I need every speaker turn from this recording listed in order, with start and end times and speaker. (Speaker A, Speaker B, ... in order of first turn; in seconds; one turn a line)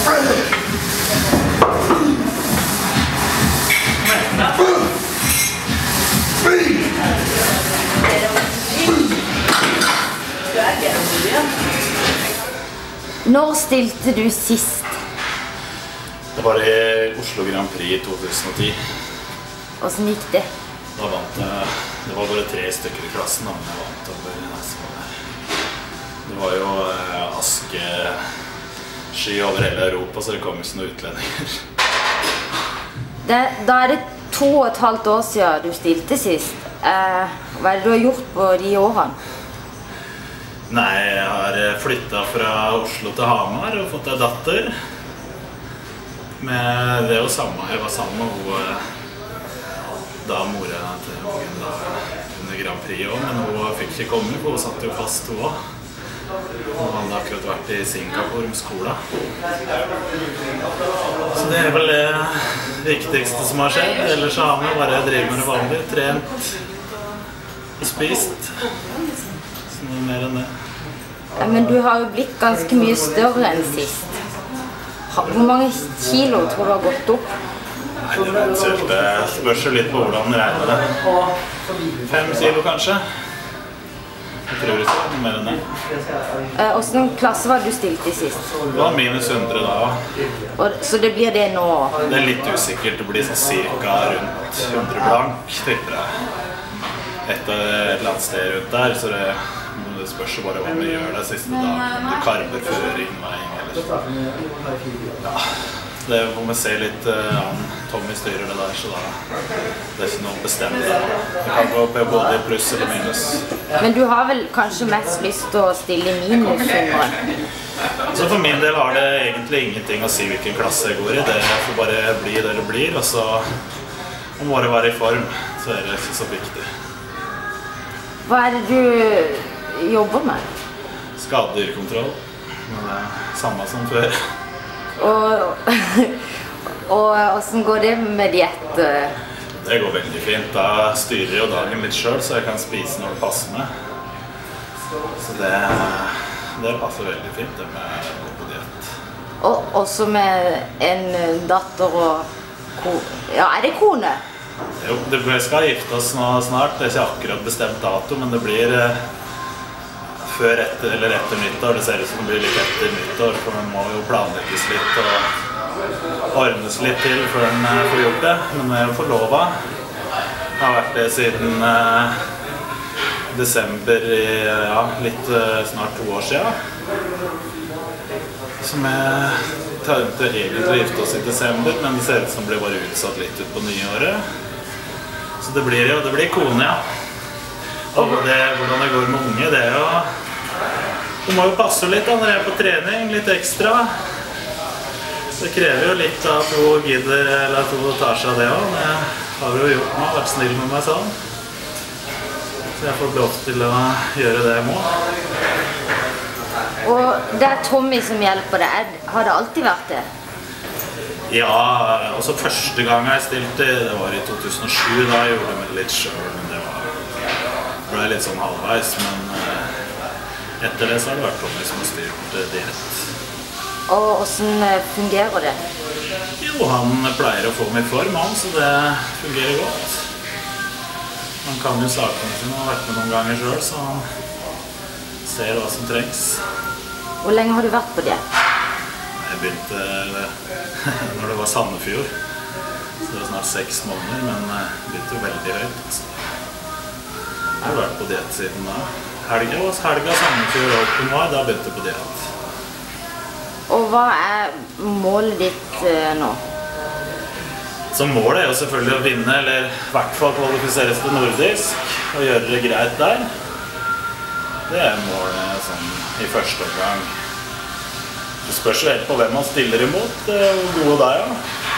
Speaker A: 13.2-14.9
Speaker B: 16.3-18.8
Speaker A: 19.8-20.5
Speaker B: 20.9-25.1
Speaker B: 26.2-28.2
Speaker B: 29.1-31.6
Speaker A: 33.2-39.2
Speaker B: 40.7-44.7
Speaker B: 46.4-48.8
Speaker B: 50.2-55.6
Speaker B: 56.8-59.0
Speaker B: 61.3-66.6
Speaker B: 67.8-68.8
Speaker B: 69.7-70.5
Speaker A: 71.4-74.1
Speaker A: 75.1-77.3
Speaker B: 78.0-81.2
Speaker B: 82.0-83.0
Speaker B: 84.5-85.6
Speaker A: 86.5-88.5
Speaker B: 88.7-90.0
Speaker A: 90.5-92.0
Speaker B: 92.0-96.2
Speaker B: 97.2-104.0
Speaker B: 106.0-109.2
Speaker B: 110.0-113.5
Speaker A: 113.8-117.2
Speaker B: 118.1-123.4
Speaker B: 124.4-126.7
Speaker A: 128.2-130.5
Speaker B: 131.2-134.2
Speaker A: 135.0-139.1
Speaker B: 139.6-143.7
Speaker B: 145.2-148.9
Speaker A: 149.4-154.2
Speaker B: 154.8-159.0
Speaker B: 160.2-165.3
Speaker B: 166.3-169.5
Speaker B: 170.6-172.2
Speaker B: 173.3-176.6
Speaker B: 178.6-184.2
Speaker B: 185.4-186.8
Speaker B: 187.9-190.1
Speaker B: 191.2-193.9
Speaker B: 195.3-201.1
Speaker B: 202.8-204.9
Speaker A: 206.8-210.1
Speaker B: 211.3-216.9
Speaker B: 217.9-219.8
Speaker B: 220.6-223.1
Speaker A: 223.9-225.6
Speaker B: 226.4-230.1
Speaker B: 231.4-234.1
Speaker B: 235.2-236.4
Speaker A: 237.2-238.2
Speaker B: 239.2-242.1
Speaker B: 243.0-246.2
Speaker B: 247.6-252.3
Speaker A: 253.7-256.4
Speaker B: 257.9-263.3
Speaker B: 264.7-267.1
Speaker B: 268.4-271.4